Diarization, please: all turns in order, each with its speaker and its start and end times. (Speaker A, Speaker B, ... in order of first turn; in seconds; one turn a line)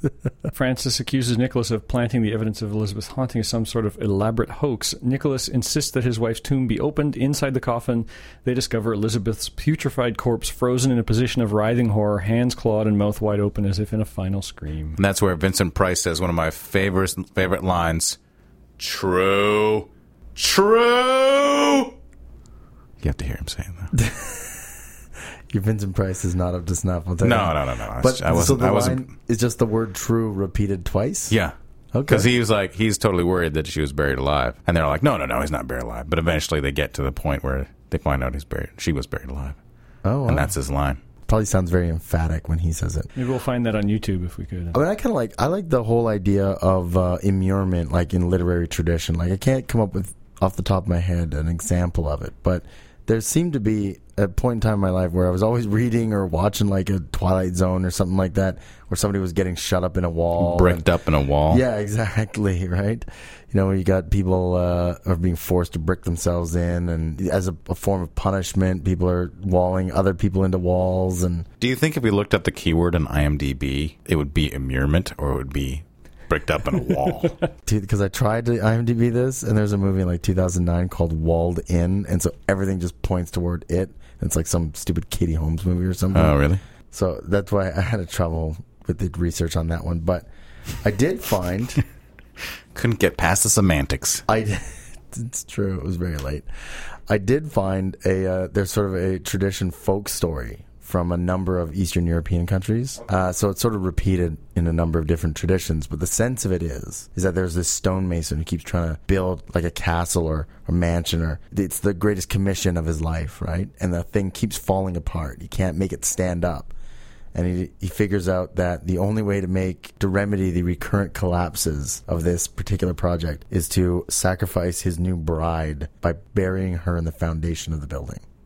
Speaker A: 0.5-15.0
Speaker B: 14.9-18.2
Speaker B: 18.8-21.9
Speaker B: 23.0-23.9
Speaker C: 23.9-24.6
Speaker C: 25.5-31.4
Speaker B: 27.2-29.1
Speaker B: 31.3-31.5
Speaker C: 31.9-32.3
Speaker B: 32.0-39.6
Speaker C: 40.0-40.5
Speaker B: 40.2-41.0
Speaker C: 41.2-43.1
Speaker A: 43.1-44.8
Speaker C: 44.7-60.9
Speaker B: 60.4-61.6
Speaker C: 61.5-71.5
Speaker B: 71.6-77.4
Speaker C: 77.7-86.4
Speaker B: 86.1-86.6
Speaker C: 86.9-90.2
Speaker C: 90.8-91.8
Speaker B: 92.7-94.2
Speaker C: 94.3-96.5
Speaker C: 97.1-116.7
Speaker C: 117.3-128.2